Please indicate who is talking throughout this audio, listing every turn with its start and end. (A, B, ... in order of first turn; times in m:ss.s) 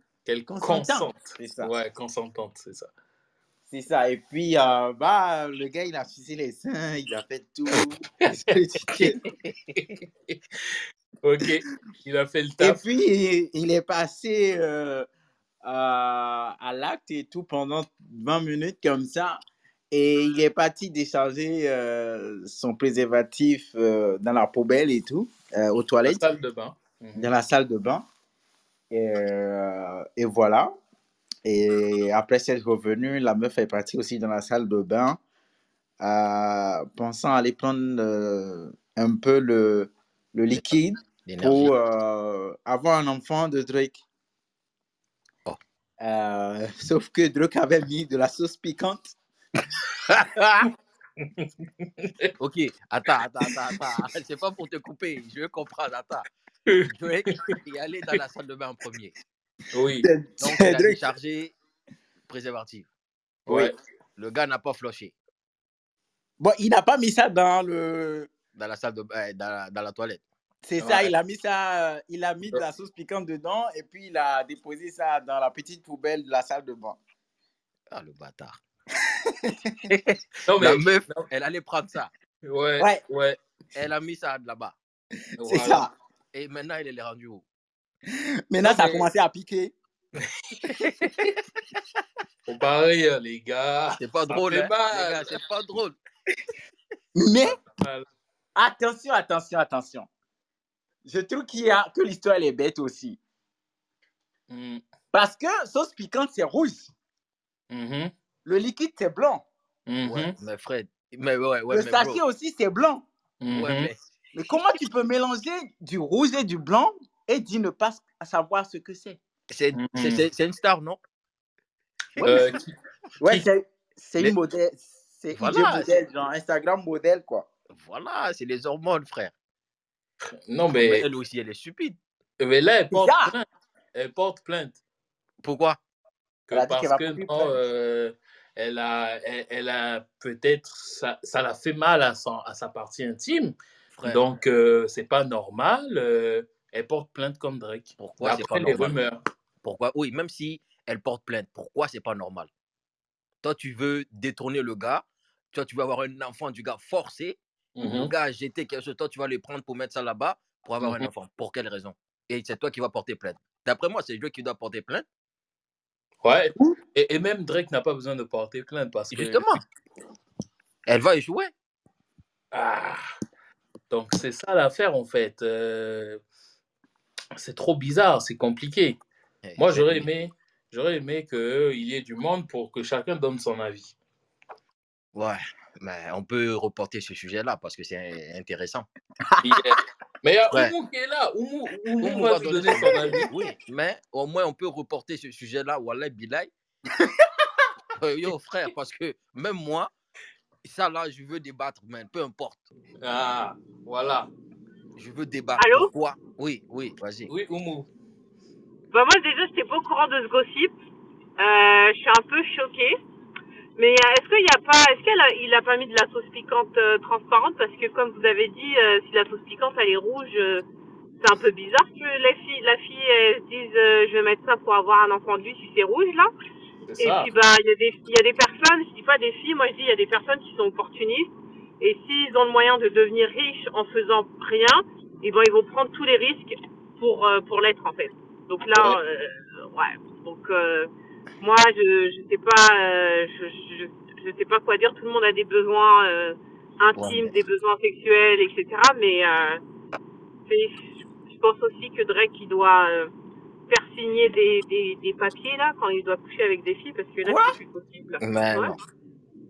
0:00.3-0:02.9 A
0:00.5-0:01.7 B
0:03.7-0:09.2 B
0:08.2-0:09.1 A
0:09.0-0:09.5 C
0:09.8-0:10.4 A
0:11.2-0:12.8 A
0:12.6-0:15.1 B
0:15.6-0:19.4 B
0:19.9-0:26.2 B
0:26.0-0:27.3 A
0:27.2-0:28.0 B
0:28.9-0:30.7 B
0:31.4-0:35.2 B
0:36.0-0:44.0 B
0:41.2-0:41.7 C
0:46.0-0:49.2 B
0:51.2-0:52.3 A
0:52.4-0:56.3 C
0:56.7-0:57.6 A
0:56.9-0:59.1 C
0:59.7-1:00.1 A
1:00.0-1:01.0 B
1:00.4-1:01.5 C
1:02.3-1:02.9 C
1:03.5-1:03.8 A
1:03.5-1:03.7 B
1:04.2-1:05.1 C
1:06.4-1:08.3 B
1:08.6-1:10.2 C
1:10.7-1:17.0 B
1:10.8-1:11.1 A
1:17.9-1:18.6 C
1:19.3-1:19.8 B
1:19.9-1:22.1 C
1:20.5-1:21.3 A
1:22.4-1:23.4 A
1:23.8-1:24.8 C
1:25.4-1:25.9 A
1:25.4-1:25.9 B
1:26.3-1:27.4 C
1:28.5-1:29.7 B
1:28.6-1:29.1 A
1:30.6-1:31.3 B
1:30.7-1:31.2 C
1:32.5-1:35.4 A
1:34.0-1:36.0 C
1:37.2-1:37.6 B
1:37.8-1:38.1 A
1:38.6-1:40.1 B
1:41.0-1:43.2 B
1:44.5-1:44.8 A
1:45.1-1:46.9 B
1:47.7-1:48.1 A
1:48.4-1:49.4 B
1:49.9-1:50.3 A
1:50.0-1:52.2 C
1:51.7-1:53.0 B
1:53.4-1:53.9 A
1:53.5-1:54.0 C
1:54.3-1:59.2 B
1:59.5-2:01.0 C
1:59.7-2:00.2 A
2:02.2-2:02.6 B
2:02.2-2:03.4 A
2:03.2-2:07.5 B
2:05.4-2:06.0 C
2:07.7-2:09.3 C
2:10.2-2:11.0 A
2:10.7-2:12.0 C
2:12.4-2:14.8 A
2:12.9-2:13.3 B
2:15.4-2:15.8 C
2:16.5-2:29.2 A
2:16.5-2:17.6 B
2:23.9-2:24.2 C
2:28.0-2:29.0 C
2:29.6-2:32.5 C
2:33.4-2:45.1 C
2:37.8-2:38.1 A
2:40.8-2:41.1 A
2:46.2-2:49.5 A
2:49.1-2:49.6 C
2:50.9-2:51.5 C
2:52.5-2:53.0 A
2:53.9-2:56.2 A
2:57.4-2:59.0 A
2:59.5-3:00.1 C
2:59.6-3:04.0 A
3:05.2-3:08.9 C
3:09.3-3:09.6 B
3:09.4-3:13.3 A
3:12.0-3:16.5 C
3:12.8-3:13.2 B
3:18.0-3:19.9 C
3:20.6-3:22.6 C
3:23.0-3:24.3 A
3:25.0-3:27.3 C
3:25.6-3:25.9 D
3:27.3-3:27.9 A
3:28.9-3:30.7 D
3:31.4-3:33.0 D
3:33.8-3:40.6 D
3:41.2-3:46.3 D
3:46.9-3:47.3 A
3:47.0-4:00.9 D
4:01.4-4:09.6 D
4:07.0-4:07.4 C
4:10.5-4:13.1 D
4:13.7-4:18.8 D
4:17.2-4:17.6 B
4:18.2-4:18.8 C